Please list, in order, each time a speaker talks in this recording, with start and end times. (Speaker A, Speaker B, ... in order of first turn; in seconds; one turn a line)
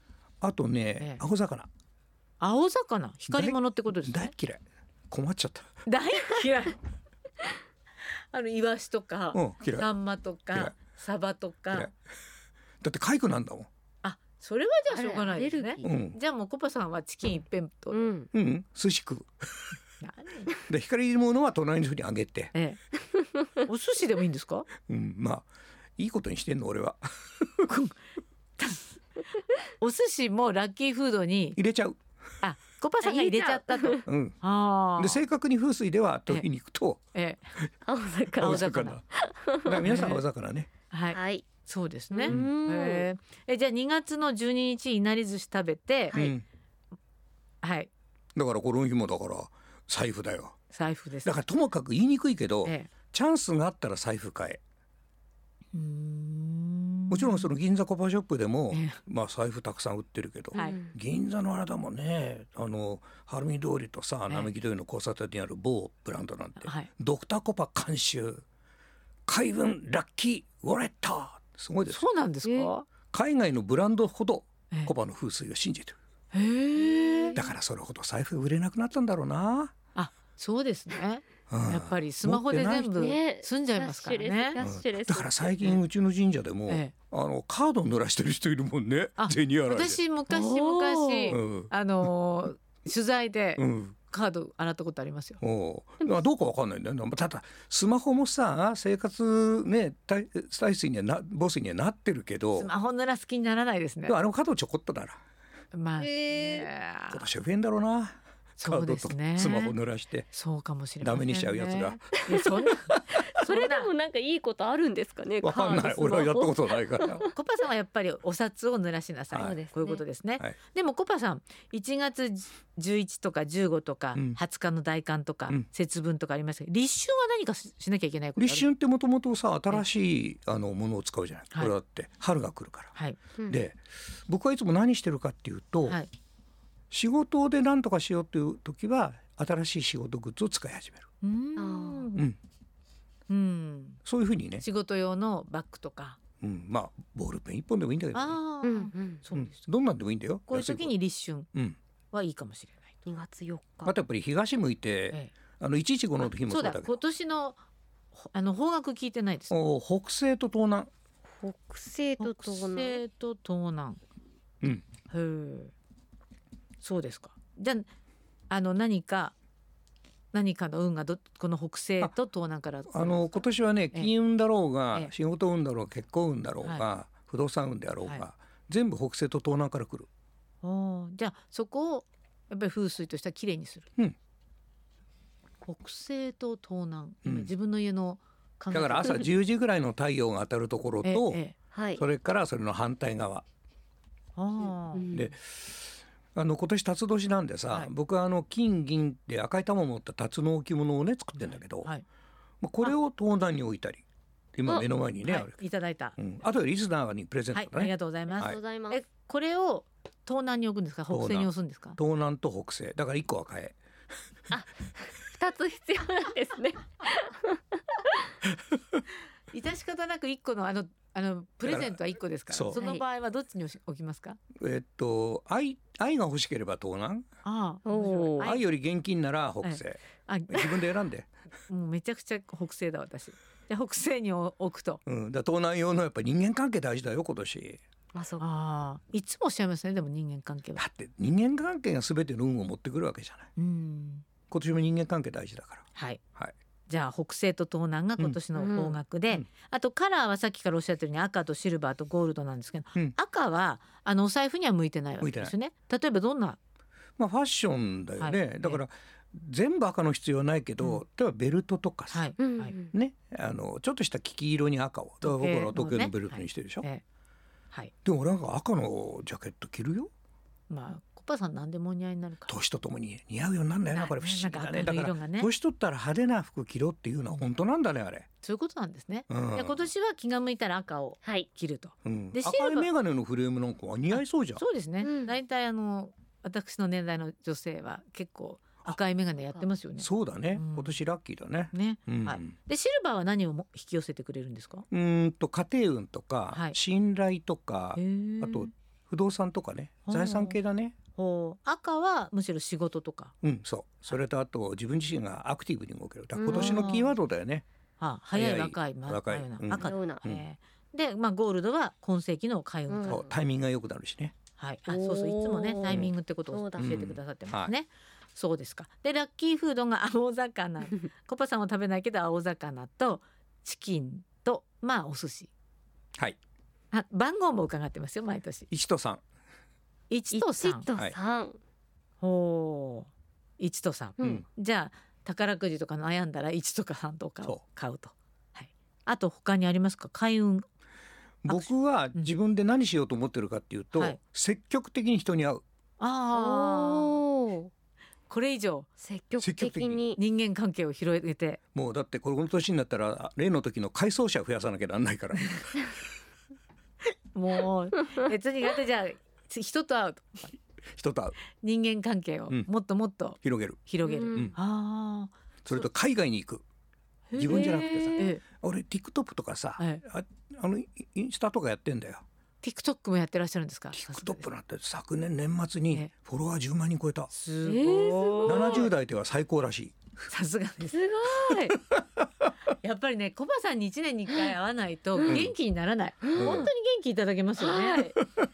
Speaker A: 0.4-1.7
Speaker B: 2.4-4.3
Speaker A: 3.3-5.7
Speaker B: 5.9-6.8
Speaker B: 8.3-11.9
Speaker A: 9.3-9.9
Speaker A: 12.8-13.7
Speaker B: 14.0-18.0
Speaker C: 14.9-15.9
Speaker A: 15.8-16.2
Speaker C: 17.9-18.3
Speaker A: 18.3-19.7
Speaker B: 20.0-20.6
Speaker A: 20.6-22.5
Speaker B: 22.5-22.8
Speaker B: 23.6-24.7
Speaker A: 24.9-27.7
Speaker B: 27.7-27.9
Speaker B: 28.6-29.0
Speaker B: 29.8-31.6
Speaker A: 31.6-32.0
Speaker B: 32.4-35.2
Speaker C: 33.0-34.0
Speaker A: 34.1-34.4
Speaker A: 35.0-37.0
Speaker B: 37.1-37.4
Speaker C: 37.9-39.8
Speaker A: 38.4-39.0
Speaker B: 38.4-39.0
Speaker A: 39.6-40.7
Speaker B: 39.9-40.2
Speaker B: 40.9-46.2
Speaker C: 41.1-41.5
Speaker C: 42.1-43.1
Speaker A: 46.1-46.4
Speaker B: 47.6-47.9
Speaker A: 48.4-50.6
Speaker B: 50.7-51.4
Speaker A: 51.2-54.6
Speaker B: 52.6-52.9
Speaker B: 55.7-57.5
Speaker A: 57.1-68.4
Speaker B: 58.7-59.0
Speaker C: 60.5-60.9
Speaker B: 66.6-66.9
Speaker A: 69.3-72.0
Speaker B: 71.9-72.9
Speaker C: 72.5-72.7
Speaker A: 73.1-76.0
Speaker B: 76.3-77.4
Speaker C: 76.8-77.4
Speaker A: 77.3-79.7
Speaker B: 80.0-84.6
Speaker A: 81.5-83.0
Speaker C: 83.0-85.6
Speaker A: 84.6-90.0
Speaker B: 89.2-95.4
Speaker C: 90.3-91.4
Speaker A: 91.3-91.7
Speaker A: 93.6-94.0
Speaker A: 95.4-102.7
Speaker B: 102.6-104.2
Speaker A: 104.1-105.2
Speaker B: 105.7-107.2
Speaker C: 106.0-106.7
Speaker A: 107.1-110.3
Speaker B: 108.6-109.7
Speaker B: 110.3-113.9
Speaker A: 111.0-112.1
Speaker A: 112.9-113.2
Speaker C: 113.1-117.3
Speaker A: 115.4-117.2
Speaker B: 117.1-128.7
Speaker C: 119.4-120.0
Speaker A: 128.4-132.9
Speaker A: 133.5-136.0
Speaker A: 136.9-141.1
Speaker B: 141.2-142.3
Speaker C: 141.6-142.2
Speaker B: 143.3-144.0
Speaker A: 144.1-144.7
Speaker B: 144.6-146.2
Speaker A: 146.4-148.4
Speaker B: 148.1-149.6
Speaker C: 148.6-149.2
Speaker A: 149.3-150.9
Speaker B: 150.5-151.5
Speaker B: 152.1-152.9
Speaker C: 153.1-153.9
Speaker A: 153.9-157.0
Speaker B: 156.3-157.6
Speaker B: 158.1-159.5
Speaker A: 159.5-160.9
Speaker C: 161.3-163.0
Speaker B: 162.2-164.0
Speaker B: 165.1-165.7
Speaker B: 166.8-167.9
Speaker B: 168.5-169.3
Speaker B: 170.3-173.3
Speaker A: 172.9-180.1
Speaker B: 180.6-183.9
Speaker B: 185.7-189.3
Speaker A: 187.2-187.5
Speaker A: 188.7-191.4
Speaker B: 191.0-191.6
Speaker C: 191.7-192.0
Speaker A: 192.0-193.4
Speaker B: 194.4-195.1
Speaker C: 195.0-195.2
Speaker A: 195.1-201.9
Speaker B: 201.4-202.0
Speaker A: 202.6-204.0
Speaker A: 204.6-205.6
Speaker B: 205.2-206.2
Speaker A: 206.2-208.6
Speaker B: 207.5-212.0
Speaker C: 208.4-209.0
Speaker A: 211.1-213.8
Speaker C: 214.5-218.2
Speaker B: 219.5-224.4
Speaker A: 221.7-222.0
Speaker A: 222.5-222.8
Speaker C: 222.8-223.0
Speaker A: 224.6-227.3
Speaker B: 227.4-228.6
Speaker C: 227.9-228.5
Speaker A: 228.4-231.3
Speaker B: 229.6-230.7
Speaker B: 231.7-235.0
Speaker A: 235.1-237.8
Speaker C: 238.1-238.4
Speaker B: 238.4-240.8
Speaker A: 240.8-243.5
Speaker B: 243.6-244.3
Speaker A: 244.5-245.8
Speaker B: 245.9-246.2
Speaker B: 246.9-256.6
Speaker C: 248.6-249.0
Speaker A: 255.2-255.5
Speaker A: 257.2-262.3
Speaker B: 258.2-258.8
Speaker B: 262.1-262.7
Speaker C: 262.4-262.9
Speaker A: 262.9-266.9
Speaker B: 265.2-267.0
Speaker A: 268.0-270.1
Speaker B: 270.7-272.5
Speaker A: 272.5-278.3
Speaker B: 273.9-275.5
Speaker B: 278.4-282.9
Speaker A: 279.3-279.9
Speaker A: 282.0-284.6
Speaker B: 284.1-290.9
Speaker C: 285.0-285.3
Speaker A: 290.0-292.5
Speaker B: 291.7-294.9
Speaker A: 294.9-301.0
Speaker B: 296.5-296.8
Speaker B: 298.0-298.7
Speaker B: 300.1-300.6
Speaker B: 301.2-303.3
Speaker A: 303.4-307.6
Speaker C: 306.4-306.9
Speaker B: 306.4-307.1
Speaker B: 308.0-313.2
Speaker A: 308.3-310.4
Speaker C: 309.8-310.2
Speaker C: 312.9-313.3
Speaker A: 313.1-314.4
Speaker B: 314.6-325.5
Speaker C: 314.9-317.0
Speaker A: 316.8-317.7
Speaker B: 326.9-328.7
Speaker A: 328.7-329.2
Speaker B: 330.1-330.9
Speaker C: 330.3-331.6
Speaker B: 332.2-340.6
Speaker C: 334.2-334.4
Speaker A: 341.4-345.6
Speaker B: 341.5-342.3
Speaker B: 346.0-347.2
Speaker C: 346.3-347.7
Speaker B: 348.3-348.9
Speaker C: 349.0-350.2
Speaker A: 349.4-350.0
Speaker B: 350.2-351.6
Speaker A: 351.7-355.8
Speaker B: 357.3-360.6
Speaker A: 360.9-361.4
Speaker B: 361.5-365.9
Speaker A: 363.4-363.8
Speaker C: 364.0-364.5
Speaker A: 365.6-366.6
Speaker B: 367.3-368.4
Speaker A: 367.4-372.2
Speaker C: 367.5-368.3
Speaker B: 369.8-370.0
Speaker B: 372.6-374.5
Speaker A: 373.9-377.3
Speaker B: 377.3-378.9
Speaker C: 377.6-378.9
Speaker A: 378.4-380.0
Speaker B: 380.2-381.0
Speaker C: 380.9-381.8
Speaker B: 382.8-388.2
Speaker A: 385.3-385.5
Speaker C: 386.2-386.7
Speaker A: 386.4-386.7
Speaker C: 387.6-388.1